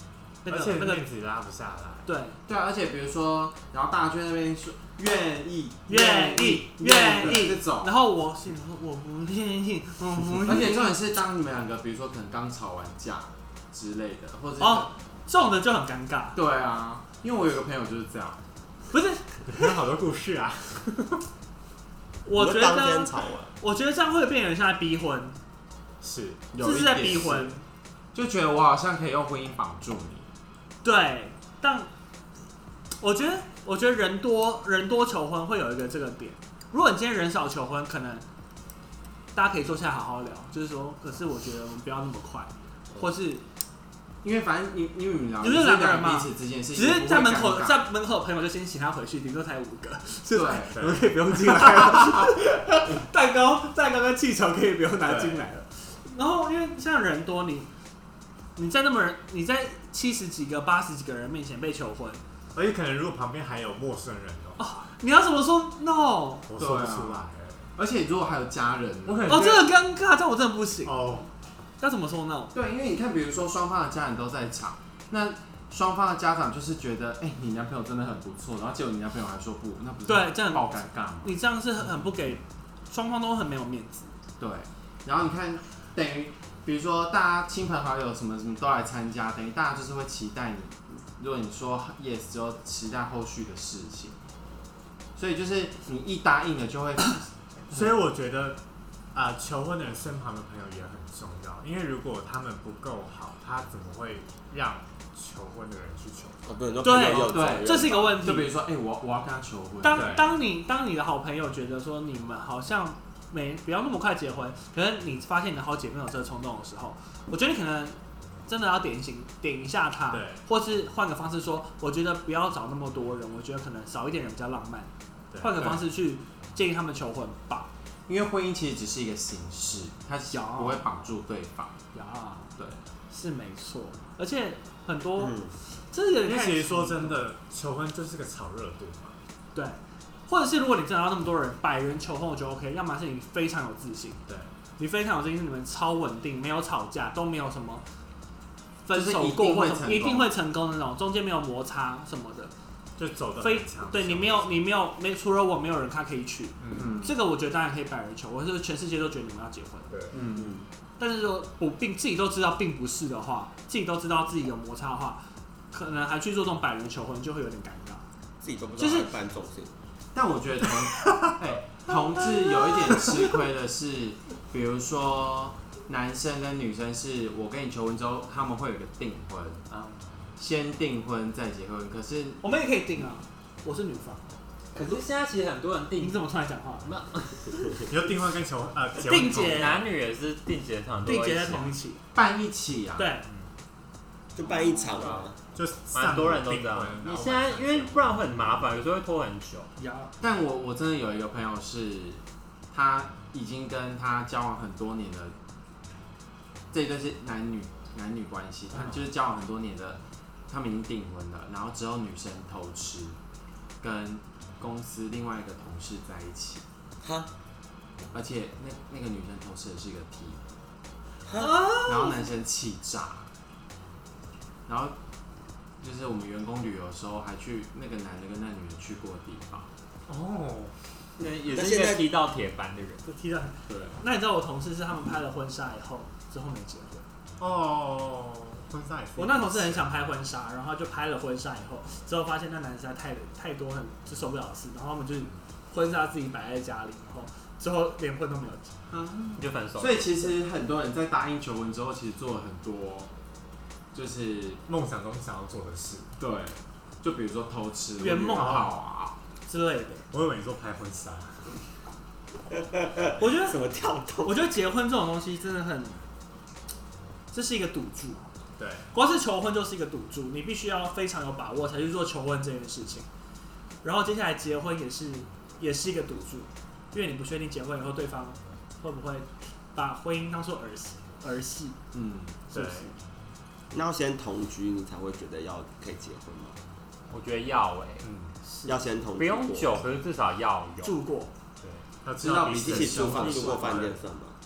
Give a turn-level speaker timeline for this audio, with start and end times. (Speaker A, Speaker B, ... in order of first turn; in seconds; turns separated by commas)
Speaker A: 0.4-1.1, Speaker B: 0.5-2.1, Speaker A: 2.0-2.4, Speaker C: 2.5-7.9, Speaker A: 5.9-10.9, Speaker C: 10.4-14.9, Speaker A: 14.6-16.4, Speaker C: 16.3-18.4, Speaker A: 18.9-19.7, Speaker B: 19.4-21.2, Speaker A: 22.2-25.4, Speaker D: 22.3-23.5, Speaker B: 26.0-26.5, Speaker C: 26.5-27.5, Speaker A: 26.6-27.6, Speaker C: 28.1-30.3, Speaker A: 30.8-31.9, Speaker A: 33.0-38.2, Speaker A: 39.3-43.4, Speaker C: 44.2-47.8, Speaker A: 45.4-57.7, Speaker C: 50.3-50.8, Speaker B: 50.7-51.1, Speaker A: 58.5-62.2, Speaker B: 62.5-64.7, Speaker A: 64.6-66.5, Speaker B: 66.5-67.7, Speaker C: 66.6-67.2, Speaker C: 67.8-69.6, Speaker B: 69.0-69.6, Speaker A: 69.2-71.3, Speaker B: 70.8-71.3, Speaker A: 71.8-72.5, Speaker C: 72.5-81.4, Speaker A: 80.0-84.1, Speaker C: 84.4-94.2, Speaker C: 95.2-97.2, Speaker B: 97.7-98.6, Speaker B: 99.1-106.4, Speaker D: 106.4-108.3, Speaker A: 106.8-108.5, Speaker C: 107.0-110.2, Speaker A: 109.8-127.7, Speaker B: 109.9-110.3, Speaker B: 120.1-120.4, Speaker B: 125.3-125.8, Speaker C: 128.1-131.8, Speaker A: 130.3-130.8, Speaker A: 131.9-132.5, Speaker A: 133.1-137.2, Speaker D: 135.2-135.5, Speaker B: 136.2-139.2, Speaker A: 139.5-144.2, Speaker B: 144.3-144.5, Speaker A: 144.8-147.8, Speaker A: 148.8-152.5, Speaker C: 148.9-150.3, Speaker B: 153.0-154.7, Speaker A: 153.4-159.9, Speaker B: 156.6-157.1, Speaker C: 156.7-157.1, Speaker B: 159.9-160.2, Speaker C: 160.1-160.6, Speaker D: 160.3-160.6, Speaker A: 161.0-168.0, Speaker D: 168.4-169.8, Speaker A: 168.8-169.1, Speaker C: 170.1-179.6, Speaker E: 179.7-180.0, Speaker C: 180.4-182.4, Speaker A: 182.4-184.2, Speaker E: 184.7-186.2, Speaker A: 186.0-186.9, Speaker E: 186.8-187.9, Speaker B: 187.9-189.8, Speaker A: 189.0-189.8, Speaker E: 189.3-191.7, Speaker A: 191.0-192.0, Speaker C: 192.1-193.1, Speaker A: 193.0-193.2, Speaker D: 194.3-195.4, Speaker E: 194.9-195.2, Speaker B: 195.5-198.4, Speaker E: 195.9-199.7, Speaker A: 199.8-200.1, Speaker C: 200.2-205.3, Speaker C: 206.7-213.2, Speaker C: 213.8-216.6, Speaker D: 217.0-217.3, Speaker C: 218.0-220.6, Speaker D: 221.2-221.5, Speaker A: 221.4-222.2, Speaker C: 221.8-223.3, Speaker C: 224.7-224.9, Speaker C: 225.8-229.7, Speaker B: 230.1-230.7, Speaker E: 231.2-233.0, Speaker D: 231.4-232.1, Speaker A: 233.0-237.0, Speaker C: 233.7-233.9, Speaker B: 237.4-239.9, Speaker A: 239.2-248.7, Speaker C: 248.9-253.1, Speaker E: 249.4-250.3, Speaker C: 253.9-254.6, Speaker B: 254.7-256.1, Speaker C: 256.2-259.1, Speaker A: 258.0-258.7, Speaker B: 258.4-258.7, Speaker A: 259.5-260.1, Speaker B: 260.1-261.6, Speaker D: 262.5-264.4, Speaker A: 263.2-263.6, Speaker A: 264.2-266.0, Speaker A: 267.3-268.3, Speaker B: 268.6-268.9, Speaker A: 268.9-273.1, Speaker A: 273.8-281.8, Speaker C: 281.9-282.4, Speaker B: 282.5-282.9, Speaker A: 282.5-283.0, Speaker D: 283.7-286.6, Speaker E: 287.1-288.1, Speaker B: 288.0-288.3, Speaker A: 288.4-288.8, Speaker D: 288.6-289.8, Speaker E: 289.2-291.0, Speaker A: 290.8-291.3, Speaker B: 291.6-293.9, Speaker C: 292.2-293.9, Speaker D: 292.4-294.3